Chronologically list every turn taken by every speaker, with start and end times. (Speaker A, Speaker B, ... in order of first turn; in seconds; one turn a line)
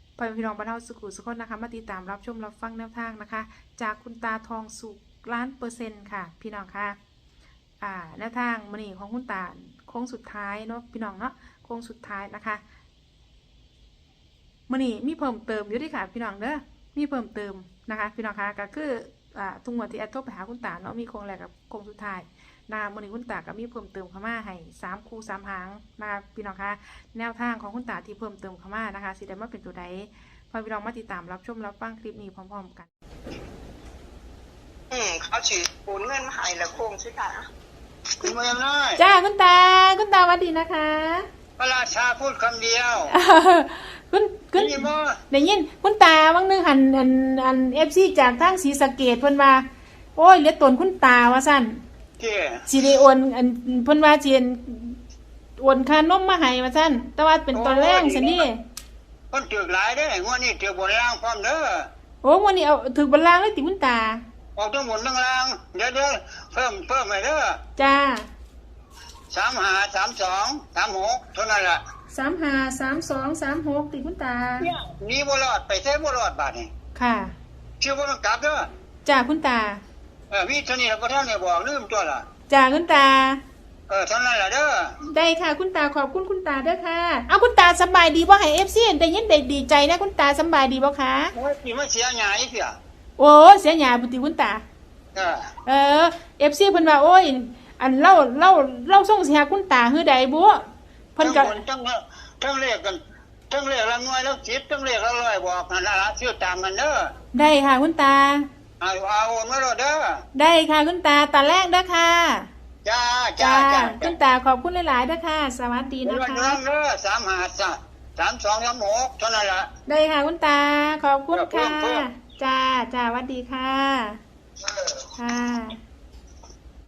Speaker A: 0.2-7.0
Speaker A: 7.8-12.6
Speaker A: 14.7-32.9
Speaker B: 34.9-37.5
Speaker C: 38.2-39.0
Speaker A: 39.0-41.3
Speaker C: 41.6-43.1
Speaker A: 43.1-49.6
Speaker C: 44.5-45.2
Speaker A: 50.1-51.8
Speaker C: 52.2-52.7
Speaker A: 52.7-55.0
Speaker A: 55.6-58.6
Speaker C: 57.5-58.5
Speaker C: 59.3-61.9
Speaker A: 62.2-64.2
Speaker C: 64.5-67.6
Speaker A: 67.8-68.3
Speaker C: 69.3-71.8
Speaker A: 72.1-74.7
Speaker C: 74.6-76.7
Speaker A: 76.9-77.3
Speaker C: 77.8-78.7
Speaker A: 79.0-79.8
Speaker C: 80.3-82.2
Speaker A: 82.5-83.4
Speaker C: 83.9-84.9
Speaker A: 85.0-91.3
Speaker C: 91.3-92.7
Speaker A: 93.2-94.6
Speaker C: 95.1-95.5
Speaker A: 95.7-101.6
Speaker C: 101.2-107.1
Speaker A: 107.3-108.5
Speaker C: 108.8-110.2
Speaker A: 110.3-112.5
Speaker C: 112.8-114.2
Speaker A: 113.4-116.6
Speaker C: 116.0-119.7
Speaker A: 119.8-124.2
Speaker C: 121.3-122.0
Speaker A: 125.1-125.8